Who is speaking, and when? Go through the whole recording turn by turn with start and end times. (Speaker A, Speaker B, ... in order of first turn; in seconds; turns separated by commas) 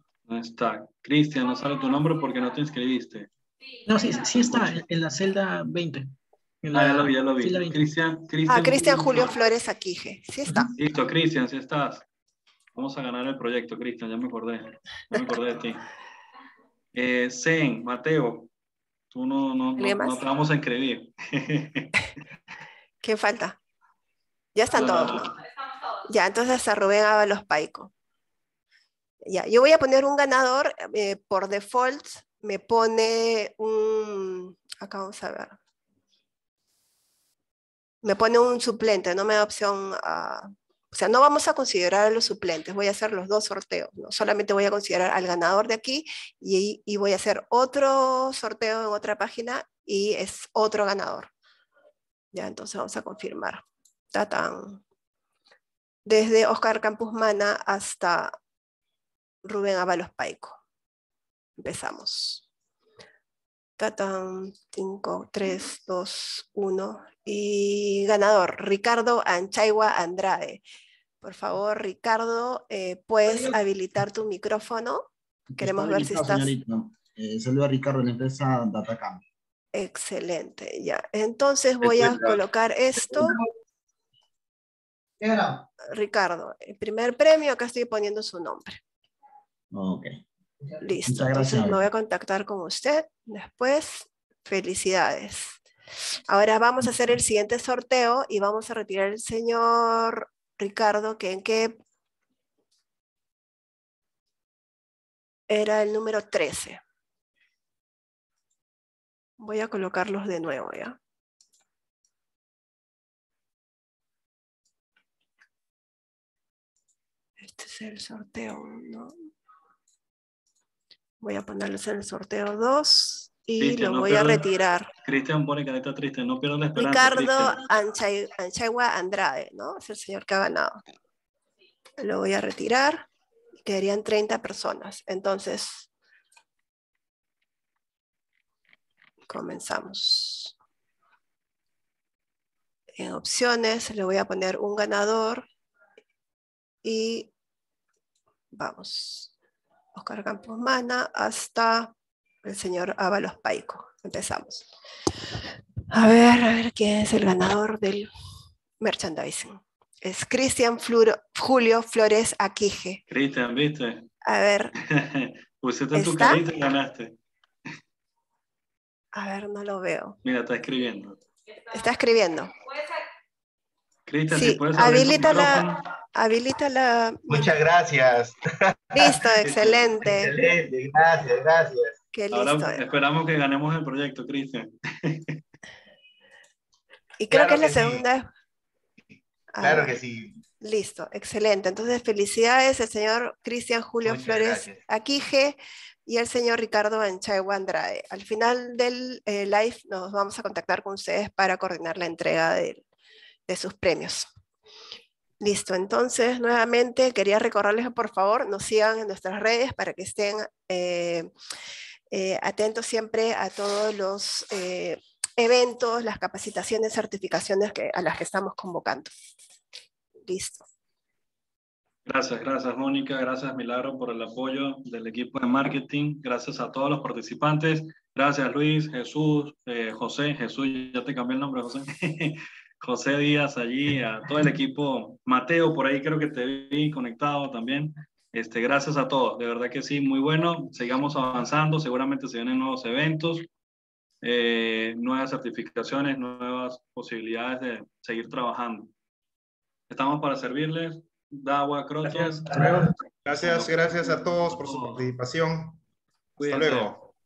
Speaker A: 0.3-3.3, Speaker B: 3.9-6.1, Speaker B: 6.6-7.8, Speaker A: 6.7-9.3, Speaker C: 8.5-10.7, Speaker A: 10.8-12.1, Speaker A: 12.8-15.8, Speaker A: 16.9-18.5, Speaker A: 19.1-21.9, Speaker C: 19.8-20.2, Speaker C: 23.0-23.6, Speaker C: 24.6-25.4, Speaker A: 24.8-25.3, Speaker C: 26.1-27.9, Speaker C: 29.3-35.6, Speaker C: 38.0-51.3, Speaker C: 52.3-53.6, Speaker C: 54.1-54.8, Speaker C: 56.1-58.3, Speaker C: 59.5-60.6, Speaker C: 61.6-62.4, Speaker C: 63.8-70.6, Speaker C: 71.2-75.1, Speaker D: 73.2-73.5, Speaker D: 75.6-79.2, Speaker C: 75.6-76.5, Speaker C: 79.7-83.3, Speaker D: 81.8-82.4, Speaker D: 83.0-83.4, Speaker D: 85.2-85.7, Speaker C: 85.9-88.8, Speaker D: 89.7-90.1, Speaker C: 90.8-95.6, Speaker D: 91.0-91.8, Speaker C: 96.3-101.8, Speaker C: 105.5-106.8, Speaker C: 109.4-111.0, Speaker C: 117.4-119.1, Speaker C: 121.2-124.9, Speaker A: 123.6-124.5, Speaker A: 125.0-127.6, Speaker C: 126.8-130.8, Speaker C: 132.0-133.1, Speaker C: 133.6-135.9, Speaker C: 139.3-140.5, Speaker C: 143.0-145.5, Speaker C: 146.8-147.3, Speaker C: 148.5-149.3, Speaker C: 150.0-151.9, Speaker C: 152.4-154.7, Speaker C: 155.9-158.1, Speaker C: 158.8-163.0, Speaker A: 163.1-164.1, Speaker C: 164.2-164.7, Speaker A: 164.8-167.2, Speaker C: 165.9-166.5, Speaker C: 169.1-170.2, Speaker A: 170.2-171.2, Speaker C: 171.7-172.6, Speaker A: 174.1-175.8, Speaker C: 174.3-177.5, Speaker D: 177.3-182.0, Speaker C: 178.9-180.3, Speaker C: 182.1-182.8, Speaker A: 182.3-185.4, Speaker C: 187.2-188.3, Speaker D: 187.3-188.0, Speaker C: 189.5-190.0, Speaker D: 189.6-190.3, Speaker C: 190.6-202.8, Speaker D: 194.0-194.8, Speaker C: 203.5-204.3, Speaker C: 205.4-211.3, Speaker C: 212.1-219.1, Speaker C: 220.3-220.7, Speaker A: 222.1-243.5, Speaker A: 244.2-248.9, Speaker A: 249.9-252.5, Speaker B: 252.0-252.9, Speaker E: 253.3-255.8, Speaker E: 256.4-257.0, Speaker A: 256.4-257.1